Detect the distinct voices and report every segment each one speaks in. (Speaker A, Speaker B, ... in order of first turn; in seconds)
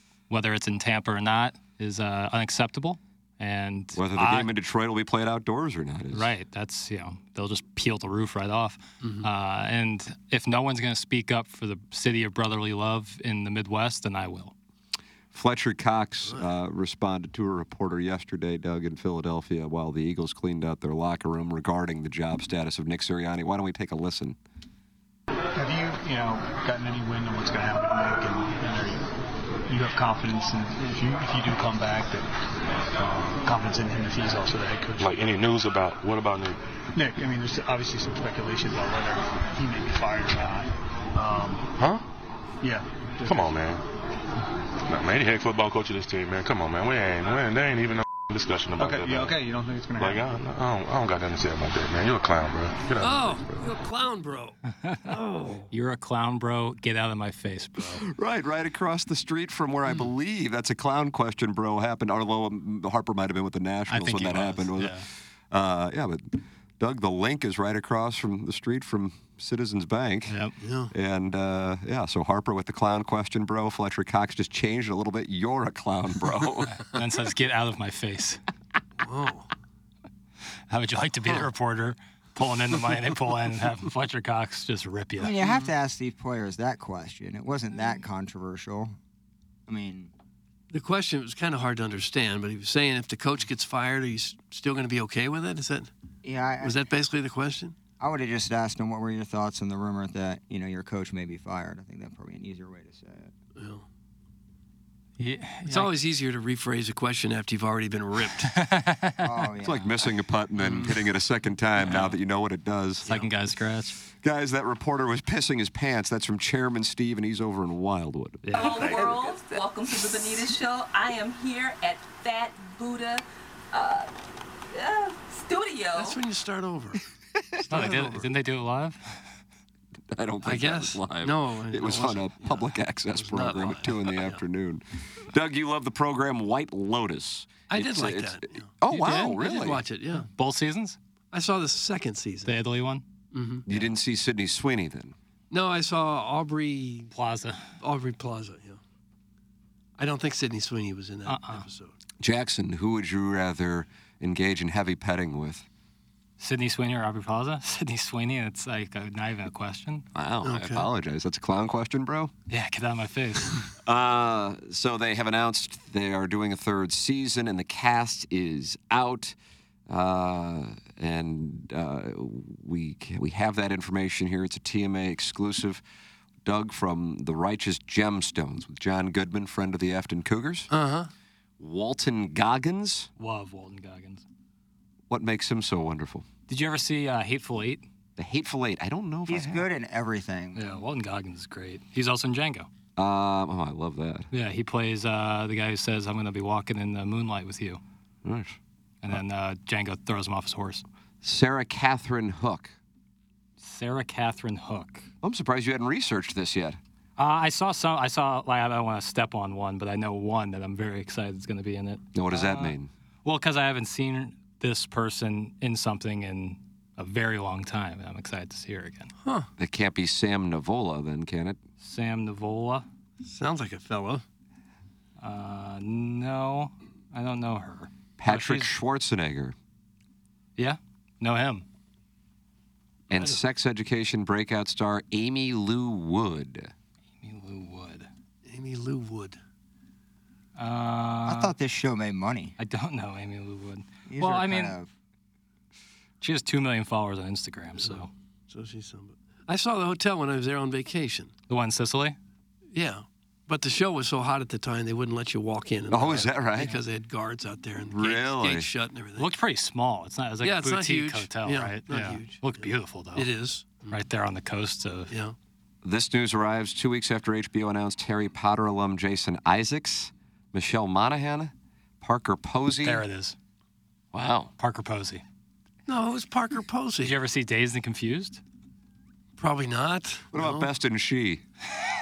Speaker A: 0.3-4.5, 6.1-14.5, 54.7-55.1, 55.7-58.0, 63.9-65.0, 70.3-70.5, 76.9-78.4, 80.7-85.3, 105.2-105.9, 108.4-109.2, 111.8-112.1, 113.0-114.0, 118.4-119.0, 127.7-129.2, 138.9-139.4, 140.3-141.0, 142.4-143.0, 147.1-147.7, 151.3-151.6, 156.4-160.1, 162.5-163.5, 183.2-184.2, 186.5-187.8, 190.5-192.7, 194.3-197.8, 199.0-200.8, 203.6-205.1, 207.2-219.1, 221.8-222.8, 225.2-228.7, 230.6-231.6, 237.2-238.1, 240.6-241.5, 242.6-244.8, 246.2-248.1, 251.5-252.2, 259.2-263.3, 263.9-265.1, 272.8-273.4, 274.6-275.2, 277.0-278.4
Speaker B: 3.9-6.3, 15.3-24.4, 58.0-70.3, 70.9-76.9, 109.6-113.1, 114.2-119.2, 130.1-139.8, 143.7-145.1, 152.2-155.6, 160.1-162.3, 163.8-169.3, 169.9-175.8, 176.4-180.7, 181.6-183.1, 185.1-186.2, 188.2-189.7, 193.0-194.3, 198.2-198.6, 201.2-202.7, 205.2-206.8, 212.1-212.9, 219.6-221.6, 228.2-229.5, 233.1-236.7, 255.9-256.7, 257.9-258.7, 265.8-273.0, 274.1-274.5, 280.3-281.4
Speaker C: 9.0-9.3, 16.2-16.5, 53.0-54.6, 55.1-55.7, 70.6-70.9, 79.0-79.5, 85.4-85.7, 90.7-95.9, 96.6-97.7, 103.6-103.8, 105.7-108.5, 110.6-111.0, 118.7-119.1, 125.9-127.0, 127.7-128.3, 130.4-134.4, 137.7-138.7, 139.4-140.3, 141.3-142.6, 143.3-143.7, 145.5-147.1, 147.8-148.8, 150.0-151.9, 160.4-160.9, 180.7-181.1, 219.2-219.5, 223.2-224.2, 233.1-233.4, 238.4-239.4, 247.8-251.3, 252.7-259.3, 260.4-264.0, 265.1-265.4, 275.9-277.1, 279.4-280.7
Speaker D: 25.5-29.1, 29.7-32.3, 32.9-35.1, 36.9-41.7, 42.6-43.5, 48.8-50.2
Speaker E: 35.0-36.6, 41.8-42.0, 43.2-43.8, 44.9-49.4, 50.0-53.6
Speaker F: 85.2-89.0, 89.7-90.1, 96.2-96.8, 98.0-103.3, 109.2-110.1, 189.3-190.8, 241.2-242.5, 244.1-244.9
Speaker G: 118.5-124.1, 124.7-126.2